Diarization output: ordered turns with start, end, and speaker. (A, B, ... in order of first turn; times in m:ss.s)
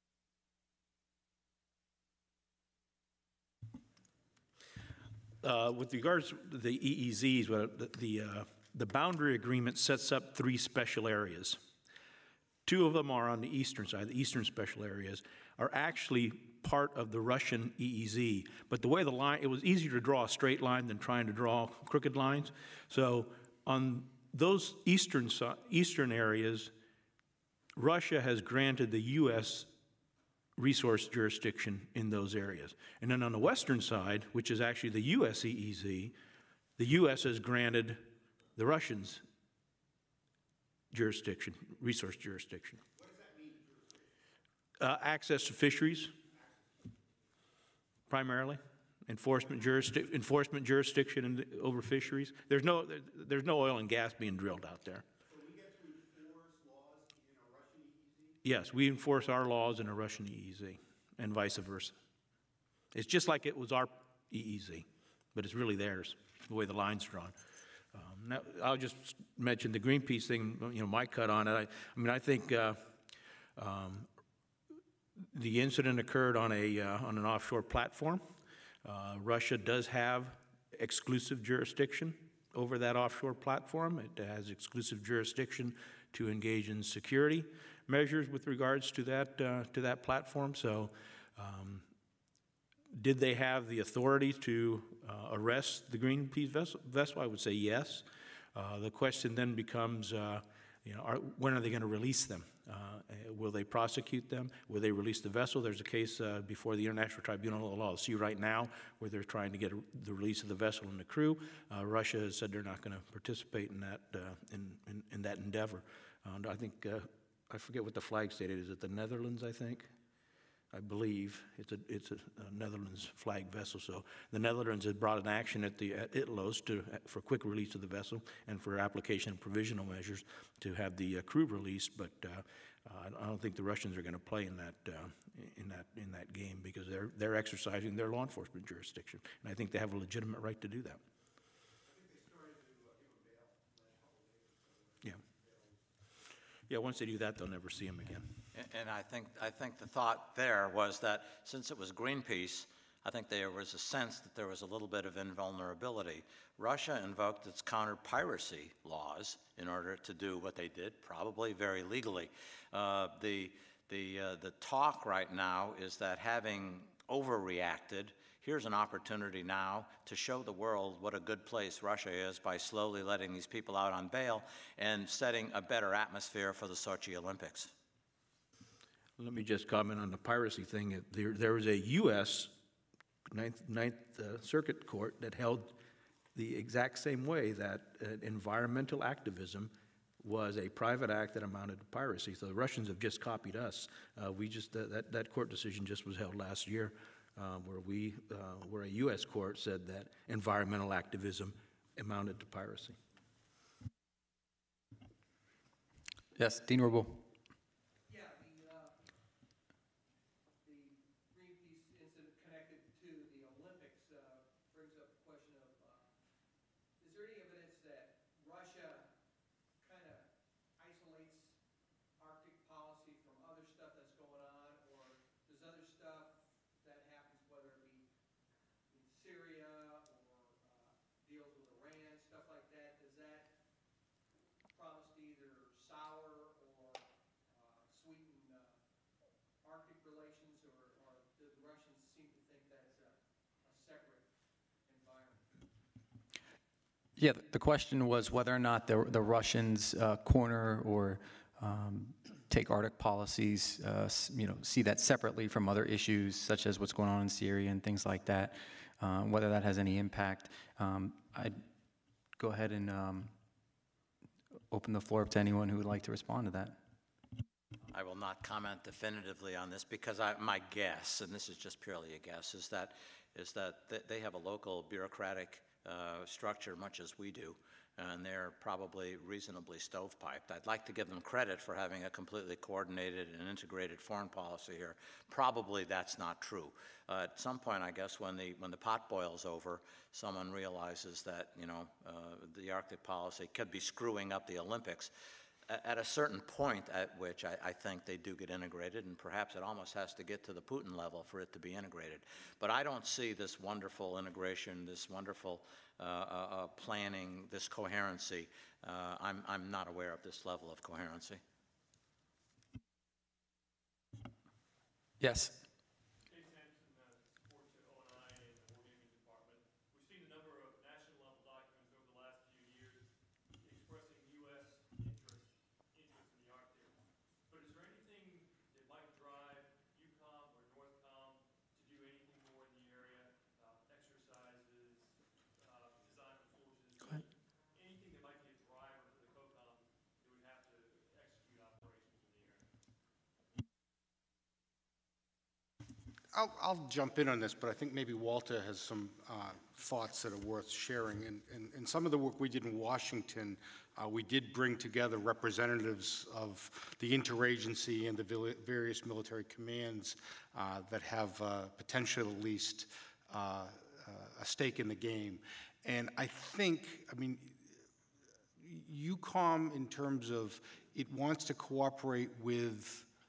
0:05.4-0:11.6 A
0:12.6-0:26.7 A
0:27.8-0:29.7 A
0:30.6-0:36.2 A
0:36.8-0:38.0 A
0:38.6-0:39.2 A
0:40.9-0:42.8 A
0:42.9-0:44.2 B
0:44.8-0:46.1 A
0:46.3-0:47.0 B
0:48.1-0:55.1 A
0:55.3-0:58.4 B
0:58.4-1:02.0 A
1:02.9-1:07.3 A
1:07.9-1:12.8 A
1:13.6-1:14.1 A
1:15.3-1:18.2 A
1:18.8-1:31.8 A
1:32.9-1:59.9 A
2:00.7-2:21.0 A
2:21.8-2:25.8 B
2:26.7-2:28.3 A
2:28.5-2:57.7 C
2:59.2-3:02.5 A
3:03.3-3:05.7 A
3:06.4-3:23.0 A
3:26.4-3:27.2 D
3:28.1-3:29.1 E
3:30.6-3:36.1 E
3:37.0-3:39.1 E
3:39.8-3:41.6 E
3:42.2-3:48.1 E
3:48.9-3:53.5 E
3:54.7-3:58.8 E
3:59.6-4:04.3 E
4:04.8-4:05.6 E
4:07.2-4:21.6 D
4:22.4-4:23.3 D
4:24.7-4:26.8 D
4:27.9-4:55.1 C
4:55.7-5:11.4 C
5:15.2-5:15.6 D
5:16.3-5:42.7 F
5:46.3-6:07.6 G
6:08.6-6:13.1 G